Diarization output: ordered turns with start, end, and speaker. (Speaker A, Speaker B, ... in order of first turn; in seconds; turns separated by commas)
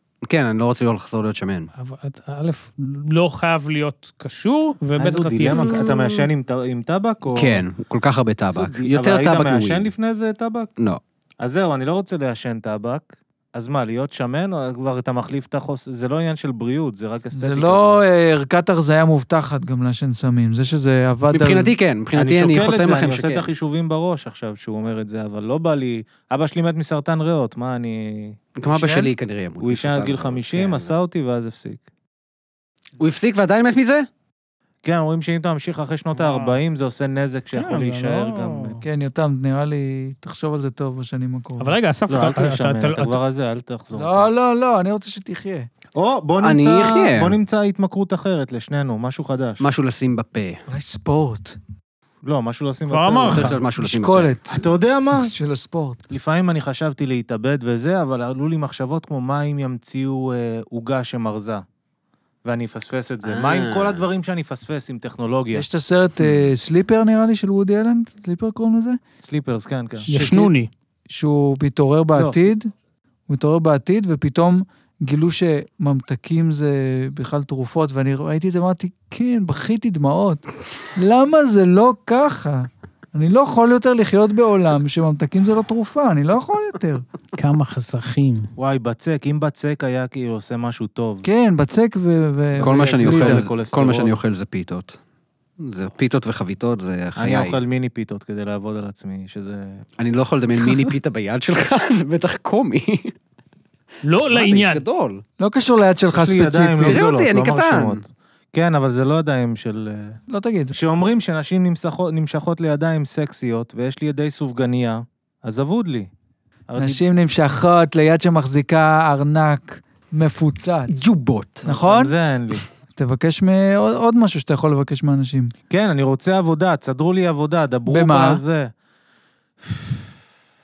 Speaker A: 0.3-1.7, Speaker B: 1.8-5.9, Speaker C: 5.0-7.6, Speaker A: 5.5-6.3, Speaker A: 7.3-9.9, Speaker C: 8.5-10.7, Speaker C: 11.4-18.0, Speaker D: 17.3-21.7, Speaker A: 21.3-23.5, Speaker C: 22.1-28.4, Speaker A: 28.6-30.9, Speaker D: 28.7-29.1, Speaker C: 29.6-31.8, Speaker A: 33.0-34.1, Speaker C: 34.8-38.8, Speaker B: 36.1-36.6, Speaker B: 37.5-38.8, Speaker D: 38.8-41.8, Speaker B: 41.6-43.2, Speaker C: 42.1-44.3, Speaker D: 43.9-45.7, Speaker C: 45.9-49.6, Speaker A: 46.4-47.4, Speaker A: 49.6-50.6, Speaker D: 50.7-51.6, Speaker C: 52.2-53.5, Speaker B: 52.9-53.5, Speaker A: 53.3-54.3, Speaker D: 53.8-56.0, Speaker C: 54.5-55.3, Speaker C: 56.1-61.6, Speaker C: 62.4-65.7, Speaker A: 63.2-64.0, Speaker D: 65.5-69.0, Speaker C: 69.2-70.5, Speaker D: 70.0-70.3, Speaker B: 70.1-70.7, Speaker D: 71.1-72.7, Speaker C: 72.2-72.5, Speaker D: 73.3-80.4, Speaker D: 80.9-87.0, Speaker B: 87.3-88.5, Speaker C: 88.6-91.3, Speaker D: 91.2-93.5, Speaker C: 92.6-94.2, Speaker A: 92.6-95.0, Speaker A: 95.6-97.6, Speaker C: 97.2-99.8, Speaker A: 100.0-103.1, Speaker B: 104.0-104.8, Speaker A: 104.3-105.2, Speaker D: 105.4-107.0, Speaker C: 106.1-110.2, Speaker A: 106.8-108.0, Speaker D: 110.3-110.8, Speaker C: 110.7-116.1, Speaker C: 116.7-117.0, Speaker D: 116.8-121.0, Speaker A: 120.9-121.7, Speaker D: 121.6-122.1, Speaker C: 121.6-122.6, Speaker D: 122.9-125.5, Speaker C: 125.7-128.7, Speaker D: 127.9-128.4, Speaker C: 129.7-129.9